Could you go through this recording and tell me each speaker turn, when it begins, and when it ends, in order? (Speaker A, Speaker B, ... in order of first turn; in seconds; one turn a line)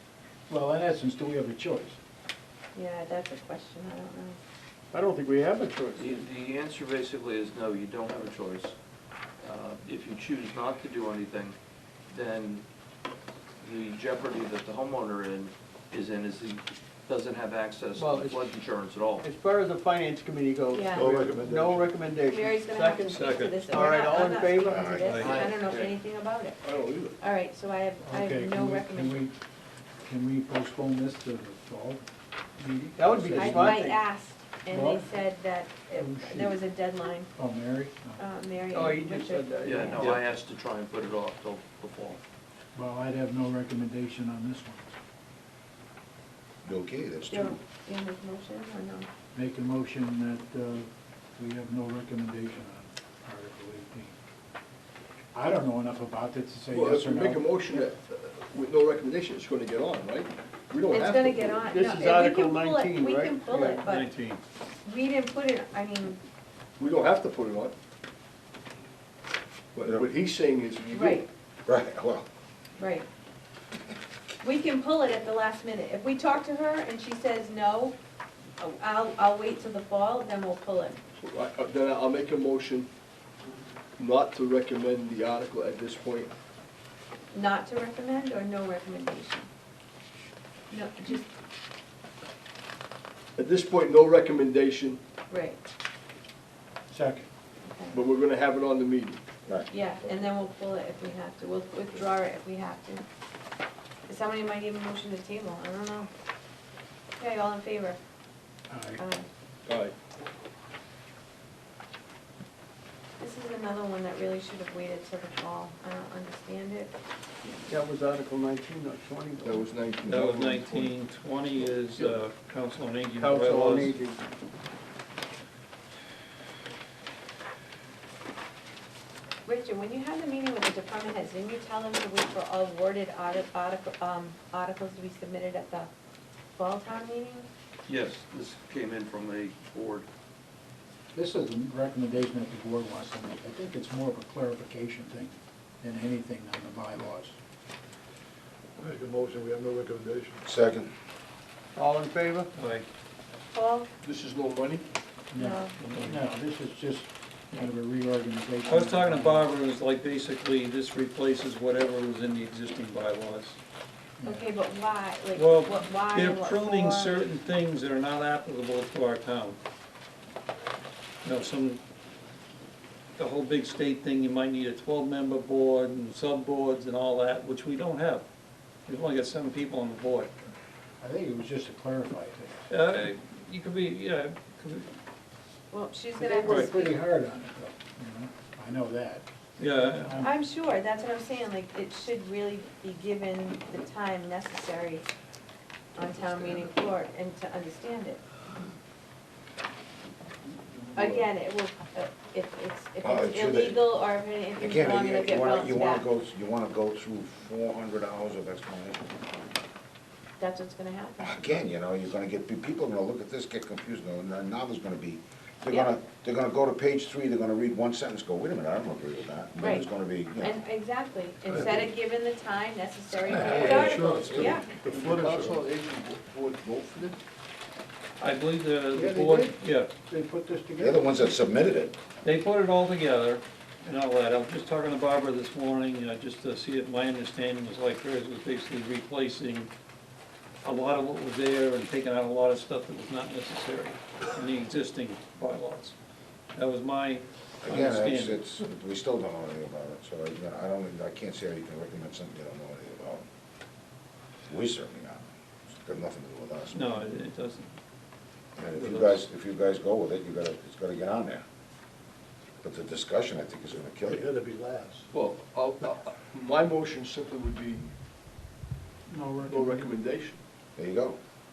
Speaker A: 0.5-2.0
Speaker B: 2.7-4.4
Speaker C: 4.9-6.2
Speaker D: 6.0-8.7
Speaker D: 9.4-11.6
Speaker D: 12.1-12.6
Speaker D: 13.6-19.2
Speaker C: 17.9-18.6
Speaker C: 19.2-25.6
Speaker B: 20.7-21.2
Speaker E: 20.9-21.9
Speaker B: 22.2-26.6
Speaker F: 23.1-23.9
Speaker G: 24.6-25.2
Speaker F: 25.0-25.4
Speaker H: 25.7-25.9
Speaker E: 26.6-27.0
Speaker H: 26.8-27.1
Speaker B: 27.2-29.2
Speaker A: 28.0-29.3
Speaker A: 30.0-32.0
Speaker A: 32.6-33.9
Speaker C: 33.0-34.0
Speaker B: 33.3-37.3
Speaker A: 34.7-35.1
Speaker A: 36.0-36.5
Speaker A: 37.4-38.2
Speaker B: 38.2-40.0
Speaker C: 38.7-40.1
Speaker D: 39.6-42.2
Speaker A: 42.7-44.9
Speaker G: 46.6-47.6
Speaker B: 47.3-49.1
Speaker A: 49.3-54.1
Speaker A: 55.3-57.8
Speaker H: 56.7-61.8
Speaker B: 60.9-64.1
Speaker C: 61.7-63.8
Speaker F: 63.9-64.4
Speaker B: 64.8-66.2
Speaker H: 66.8-67.7
Speaker H: 69.7-71.2
Speaker B: 70.9-71.3
Speaker G: 71.7-72.2
Speaker B: 72.8-73.1
Speaker B: 74.4-77.9
Speaker B: 78.6-81.0
Speaker H: 81.2-82.9
Speaker H: 84.0-86.3
Speaker B: 87.3-89.5
Speaker B: 90.7-91.3
Speaker H: 93.3-95.0
Speaker B: 95.3-95.6
Speaker A: 96.9-97.3
Speaker B: 97.6-98.0
Speaker H: 97.9-99.2
Speaker B: 99.7-103.0
Speaker B: 104.1-106.1
Speaker B: 107.2-108.0
Speaker A: 108.7-109.0
Speaker B: 109.0-109.3
Speaker H: 109.7-109.9
Speaker B: 113.2-116.9
Speaker C: 117.7-119.7
Speaker H: 119.4-121.0
Speaker F: 120.0-124.0
Speaker C: 123.2-124.2
Speaker B: 129.4-135.9
Speaker B: 136.5-137.5
Speaker D: 137.9-140.1
Speaker A: 141.1-147.4
Speaker E: 148.8-150.4
Speaker G: 150.4-150.9
Speaker C: 151.7-152.5
Speaker F: 152.5-152.8
Speaker B: 153.5-153.9
Speaker H: 154.0-154.9
Speaker A: 155.3-159.5
Speaker B: 155.3-155.7
Speaker F: 155.8-156.2
Speaker F: 158.7-163.6
Speaker A: 164.2-164.5
Speaker B: 164.2-167.2
Speaker F: 165.3-169.6
Speaker F: 171.2-171.8
Speaker F: 173.2-178.2
Speaker F: 178.9-180.3
Speaker A: 181.0-182.7
Speaker F: 182.7-184.9
Speaker B: 185.7-187.0
Speaker A: 186.2-190.3
Speaker F: 189.6-190.2
Speaker B: 190.2-195.1
Speaker B: 195.9-198.2
Speaker B: 200.9-206.0
Speaker H: 201.0-201.2
Speaker G: 203.0-203.8
Speaker G: 204.6-209.1
Speaker B: 210.4-211.6
Speaker G: 211.2-220.5
Speaker B: 219.6-224.8
Speaker E: 223.2-225.6
Speaker G: 223.3-224.5
Speaker H: 224.8-227.2
Speaker F: 228.2-229.9
Speaker A: 228.9-231.1
Speaker G: 230.8-231.9
Speaker F: 232.2-239.7
Speaker F: 240.6-245.9
Speaker F: 246.5-248.4
Speaker G: 247.6-253.2
Speaker G: 254.5-257.0
Speaker F: 256.7-257.7
Speaker G: 258.6-261.4
Speaker F: 258.8-259.2
Speaker G: 262.6-264.2
Speaker E: 264.1-265.1
Speaker H: 265.1-267.9
Speaker A: 269.1-269.9
Speaker H: 269.4-270.4
Speaker G: 270.8-271.2